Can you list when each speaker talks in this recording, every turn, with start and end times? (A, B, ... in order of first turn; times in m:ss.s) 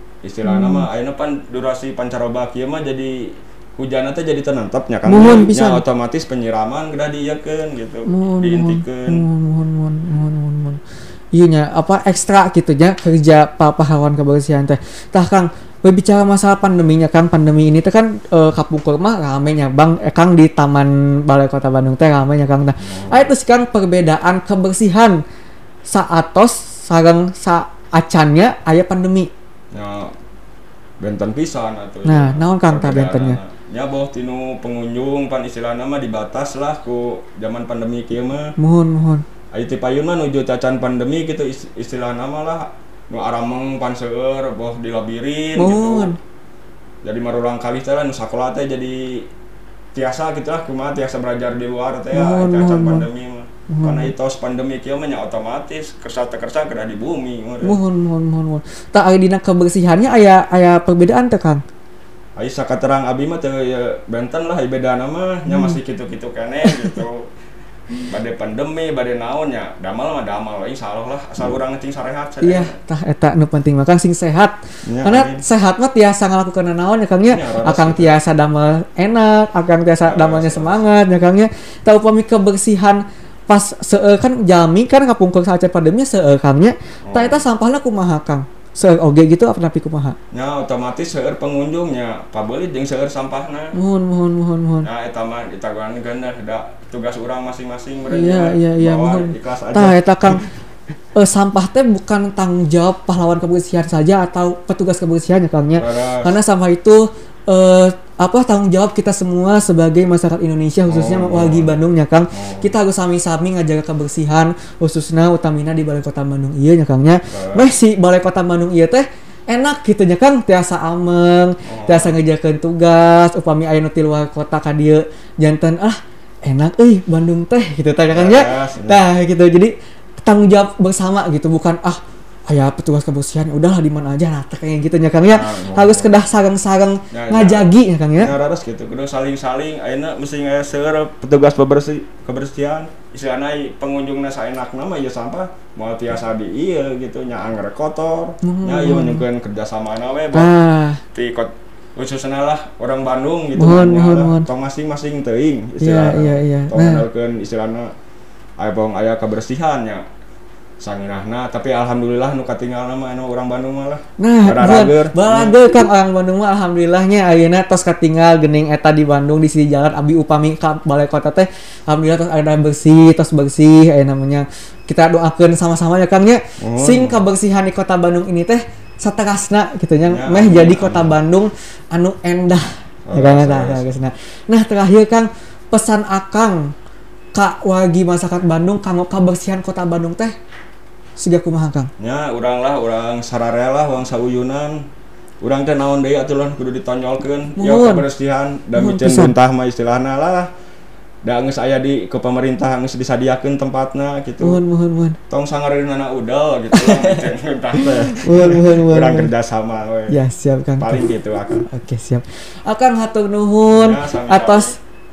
0:00.2-0:09.2 A
0:00.4-0:00.9 B
0:05.0-0:05.8 B
0:08.1-0:10.8 B
0:11.3-0:25.2 B
0:22.8-0:23.3 A
0:25.9-0:29.3 B
0:29.7-0:30.1 A
0:31.0-0:38.5 A
0:32.0-0:33.4 B
0:38.6-0:39.2 B
0:39.5-0:46.1 A
0:45.6-0:46.2 B
0:47.0-0:49.2 A
0:49.9-0:57.8 A
0:52.1-0:53.0 B
0:53.7-0:54.1 B
0:57.6-1:01.6 B
1:02.4-1:07.3 A
1:05.4-1:05.8 B
1:08.1-1:12.7 A
1:12.4-1:30.2 B
1:14.8-1:15.4 A
1:17.3-1:18.2 A
1:20.0-1:20.8 A
1:27.0-1:27.4 A
1:30.3-1:33.7 A
1:33.7-1:34.9 B
1:34.8-1:40.4 A
1:38.1-1:40.4 B
1:41.2-2:18.3 B
1:45.8-1:46.4 A
1:50.9-1:51.7 A
1:52.3-1:52.7 A
1:57.3-1:57.7 A
2:01.6-2:02.1 A
2:08.1-2:09.0 A
2:15.3-2:16.1 A
2:17.1-2:30.5 A
2:28.4-2:29.2 B
2:30.3-2:31.0 B
2:31.1-2:37.9 A
2:33.6-2:34.5 B
2:35.8-2:37.0 B
2:38.6-2:40.0 A
2:40.8-2:45.7 A
2:44.2-3:06.7 B
2:56.6-2:57.2 A
3:00.1-3:01.2 A
3:03.0-3:03.9 A
3:07.3-3:10.3 B
3:11.2-3:11.9 B
3:12.0-3:14.9 A
3:15.4-3:20.5 A
3:17.6-3:18.1 B
3:18.7-3:19.3 B
3:21.2-3:24.6 A
3:24.4-3:25.2 B
3:25.3-3:30.2 A
3:26.7-3:29.3 B
3:30.1-3:31.0 B
3:30.8-3:31.7 A
3:31.6-3:34.8 B
3:33.7-3:34.8 A